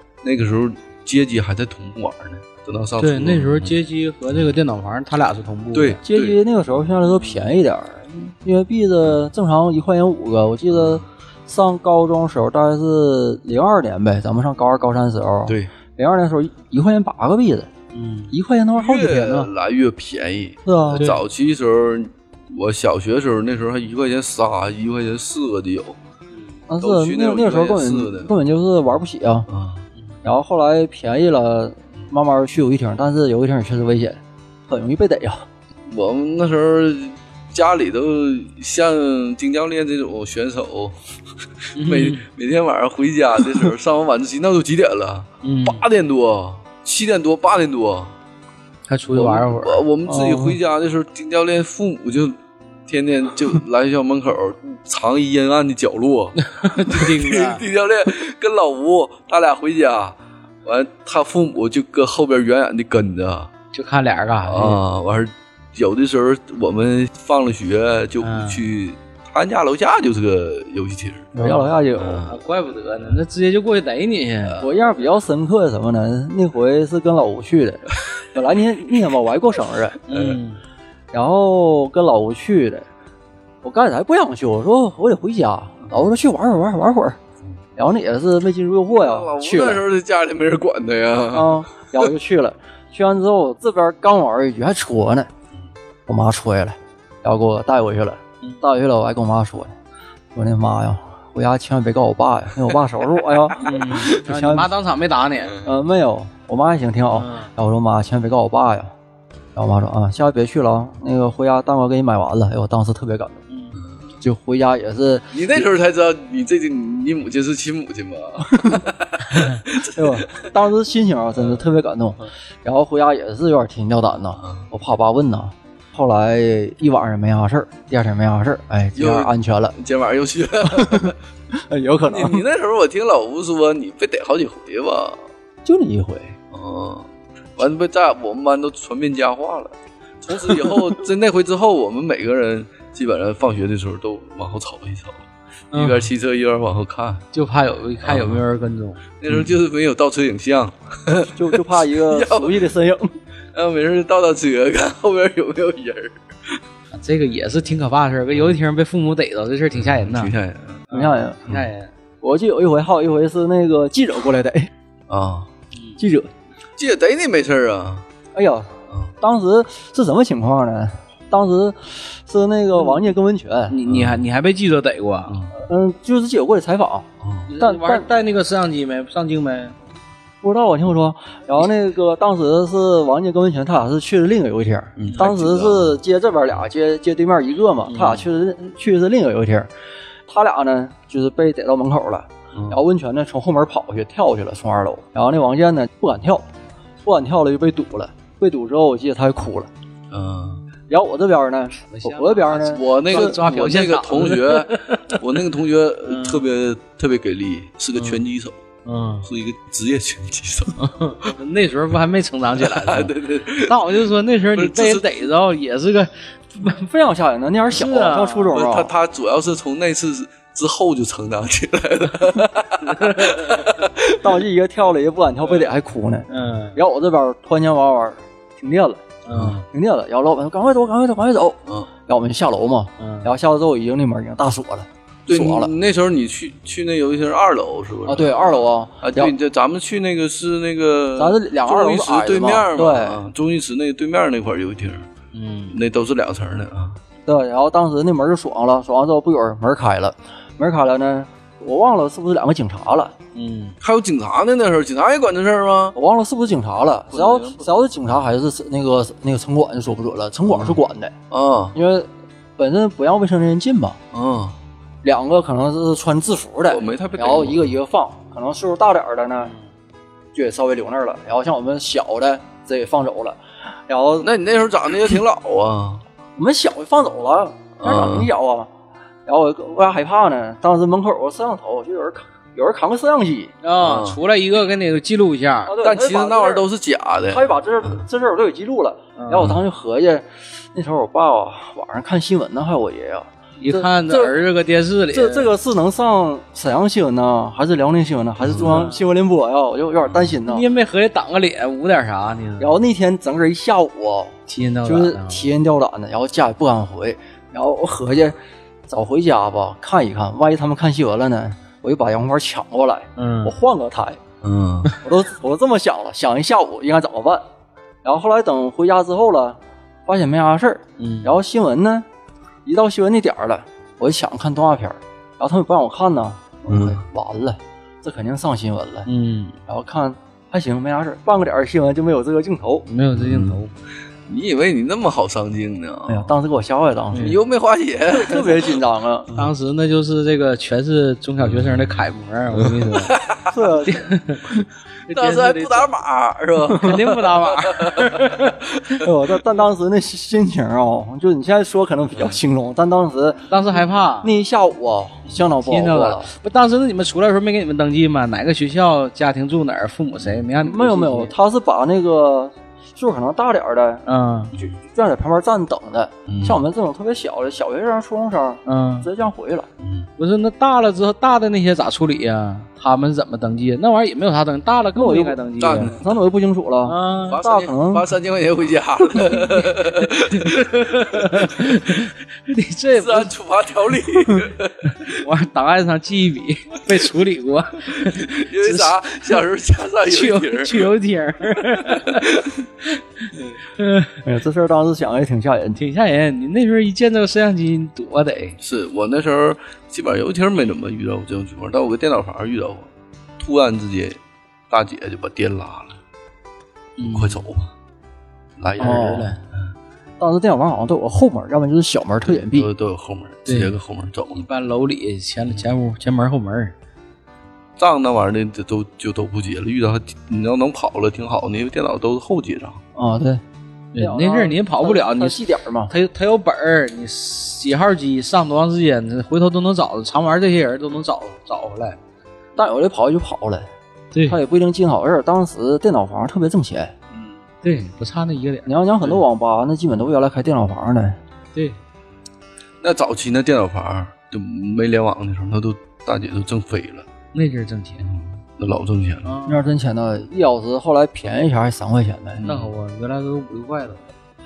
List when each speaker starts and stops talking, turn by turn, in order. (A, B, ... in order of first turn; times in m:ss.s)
0:00.2-0:03.8 A
0:03.0-0:06.0 B
0:05.7-0:06.4 A
0:06.0-0:17.7 C
0:10.7-0:11.0 A
0:15.5-0:15.7 A
0:17.9-0:18.3 B
0:18.3-0:19.5 C
0:18.7-0:26.0 A
0:20.6-0:21.1 C
0:26.7-0:29.5 C
0:26.8-0:28.3 A
0:29.5-0:29.9 A
0:30.2-0:35.4 C
0:35.9-0:48.1 A
0:41.7-0:42.2 B
0:45.4-0:45.8 B
0:48.9-0:49.8 B
0:49.1-1:03.5 A
0:50.1-0:50.6 C
0:56.4-0:57.6 B
1:03.7-1:04.8 B
1:04.4-1:11.4 A
1:08.2-1:08.7 B
1:11.4-1:12.3 C
1:11.4-1:14.7 B
1:11.9-1:12.4 A
1:14.6-1:20.0 C
1:20.1-1:20.6 B
1:20.1-1:20.4 A
1:21.1-1:22.9 C
1:23.6-1:27.2 C
1:25.9-1:26.1 A
1:27.8-1:29.8 C
1:28.9-1:32.1 A
1:31.3-1:35.3 C
1:36.1-1:39.7 C
1:40.4-1:44.7 C
1:43.5-1:44.1 A
1:43.6-1:45.6 B
1:45.6-1:48.9 C
1:47.1-1:47.5 B
1:49.6-1:53.4 C
1:53.5-1:53.8 B
1:54.2-1:55.3 C
1:55.3-2:00.4 A
1:58.4-1:58.8 C
1:59.8-2:09.7 C
2:04.4-2:04.7 A
2:09.0-2:11.2 A
2:10.6-2:12.4 C
2:12.1-2:15.2 A
2:15.6-2:16.4 C
2:16.5-2:27.2 A
2:20.3-2:20.9 C
2:25.7-2:26.1 B
2:27.3-2:29.3 B
2:28.0-2:28.4 A
2:29.2-2:32.7 A
2:31.2-2:33.1 C
2:33.5-2:36.6 A
2:36.9-2:40.3 B
2:39.7-2:40.9 A
2:40.9-2:41.9 B
2:40.9-2:41.4 C
2:42.2-2:44.7 C
2:45.1-2:45.5 A
2:46.0-2:46.3 C
2:46.8-2:48.1 A
2:48.4-2:53.8 C
2:53.7-2:55.4 B
2:53.9-2:54.2 A
2:55.3-2:55.5 A
2:55.6-2:57.1 C
2:57.2-2:57.5 A
2:57.5-2:59.7 B
2:57.6-2:58.1 C
3:00.4-3:09.7 C
3:05.0-3:06.0 A
3:07.9-3:08.2 B
3:10.3-3:16.5 C
3:12.5-3:12.8 A
3:17.0-3:19.7 C
3:20.1-3:20.6 A
3:20.9-3:23.4 C
3:21.9-3:25.3 B
3:22.7-3:28.6 A
3:26.1-3:26.4 B
3:28.0-3:28.2 B
3:28.8-3:29.3 B
3:29.2-3:31.3 A
3:30.8-3:36.3 B
3:32.6-3:35.3 A
3:36.6-3:38.9 C
3:37.7-3:38.5 B
3:38.5-3:44.3 A
3:44.2-3:49.0 C
3:46.3-3:46.8 B
3:49.2-3:49.6 B
3:49.3-3:49.6 A
3:49.7-3:55.7 C
3:53.0-3:53.3 B
3:55.3-4:05.1 A
3:58.1-3:59.3 C
4:01.2-4:03.2 C
4:05.3-4:05.8 B
4:05.7-4:07.0 A
4:07.2-4:13.1 C
4:13.3-4:13.8 B
4:13.8-4:16.0 A
4:15.9-4:21.1 C
4:17.1-4:17.8 A
4:21.3-4:21.8 A
4:21.7-4:24.0 C
4:24.1-4:24.6 A
4:25.0-4:29.5 C
4:26.7-4:27.7 A
4:30.4-4:34.3 C
4:34.2-4:36.0 A
4:36.4-4:38.7 C
4:37.8-4:38.3 A
4:39.2-4:43.6 C
4:43.6-4:45.7 B
4:43.8-4:44.2 A
4:45.6-4:46.6 C
4:45.8-4:48.0 A
4:47.3-4:54.4 C
4:49.2-4:49.5 B
4:53.6-4:55.5 B
4:55.1-5:00.6 C
4:58.4-4:58.9 A
4:58.5-4:59.0 B
5:00.1-5:00.4 A
5:00.5-5:02.8 B
5:02.6-5:08.4 C
5:04.5-5:05.5 B
5:08.9-5:14.2 C
5:13.2-5:13.6 B
5:14.4-5:14.9 A
5:15.0-5:17.4 C
5:18.0-5:22.0 C
5:21.0-5:21.4 B
5:22.6-5:29.1 C
5:26.7-5:27.0 A
5:29.1-5:29.6 B
5:29.7-5:32.9 C
5:32.9-5:33.7 B
5:33.1-5:33.6 A
5:34.3-5:36.4 A
5:36.1-5:37.4 C
5:37.2-5:39.5 A
5:38.1-5:39.3 C
5:39.3-5:43.2 B
5:41.4-5:43.8 A
5:43.5-5:44.1 C
5:43.9-5:44.6 B
5:45.1-5:45.9 B
5:45.1-5:48.9 A
5:46.7-5:48.7 B
5:49.0-5:56.3 C
5:53.5-5:54.3 B
5:55.5-6:01.3 B
6:00.2-6:00.4 A
6:00.6-6:04.0 C
6:04.1-6:04.5 B
6:04.6-6:09.7 C
6:06.2-6:06.6 A
6:08.6-6:09.1 B
6:09.8-6:10.1 A
6:10.2-6:16.0 B
6:14.9-6:18.1 C
6:15.6-6:16.1 A
6:16.8-6:17.4 B
6:17.2-6:21.6 A
6:19.2-6:23.3 B
6:22.9-6:25.2 A
6:24.9-6:29.4 B
6:28.0-6:31.0 A
6:30.1-6:32.9 B
6:31.6-6:32.6 A
6:33.8-6:34.2 B
6:34.2-6:35.8 C
6:35.8-6:38.6 B
6:38.6-6:44.2 A
6:44.7-6:46.0 A
6:47.0-6:47.4 B
6:47.0-6:47.7 A
6:48.6-6:49.4 A
6:48.8-6:49.4 B
6:48.8-6:49.4 C
6:50.2-6:52.7 C
6:52.3-6:54.4 A
6:53.5-6:53.8 B
6:54.3-6:56.7 B
6:57.8-7:02.8 A
7:03.0-7:03.4 C
7:03.9-7:12.0 B
7:04.0-7:05.9 C
7:12.6-7:13.7 C
7:14.1-7:14.4 B
7:14.2-7:16.9 C
7:17.1-7:17.4 A
7:17.6-7:18.7 B
7:18.7-7:21.2 C
7:22.8-7:27.1 A
7:27.3-7:28.1 B
7:28.0-7:29.3 A
7:29.2-7:29.7 B
7:29.5-7:32.4 C
7:32.4-7:32.7 A
7:32.4-7:34.0 B